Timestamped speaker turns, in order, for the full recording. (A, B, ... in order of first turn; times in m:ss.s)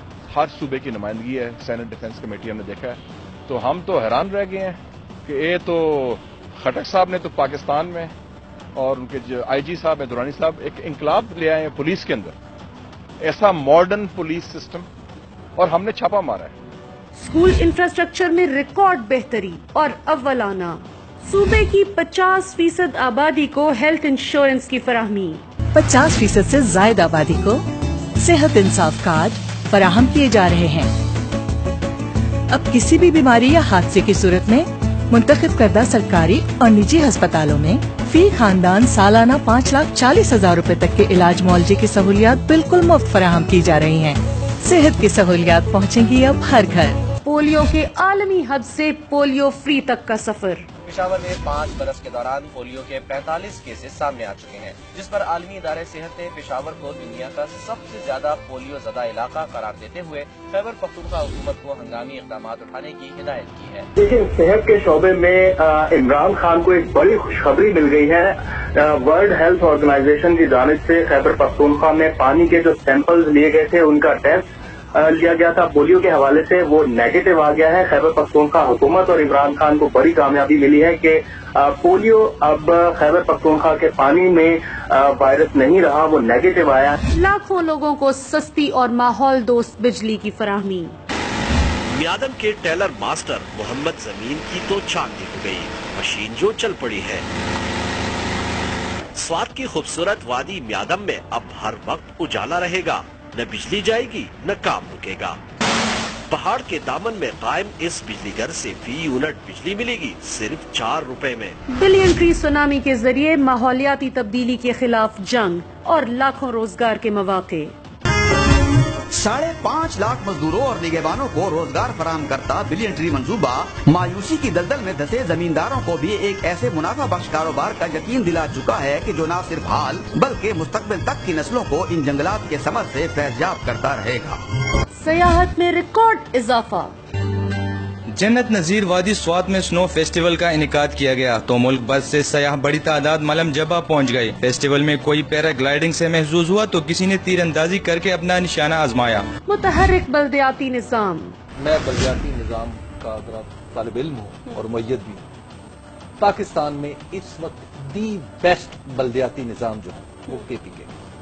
0:00.3-0:08.1 A
0:08.7-0:12.3 A
0:13.2-0:14.9 A
0:15.6-0:16.5 A
0:17.2-0:25.4 B
0:25.7-0:27.6 C
0:28.2-0:30.9 C
0:32.5-0:47.0 C
0:47.2-0:50.7 B
0:50.9-1:03.9 D
1:04.0-1:27.0 E
1:27.1-1:31.0 B
1:31.9-1:37.2 F
1:39.2-1:45.4 F
1:46.3-1:51.6 F
1:51.7-1:57.7 B
1:59.1-2:14.4 G
2:15.0-2:16.9 B
2:18.1-2:29.2 H
2:29.5-2:31.3 B
2:31.6-2:35.2 I
2:36.2-2:40.9 I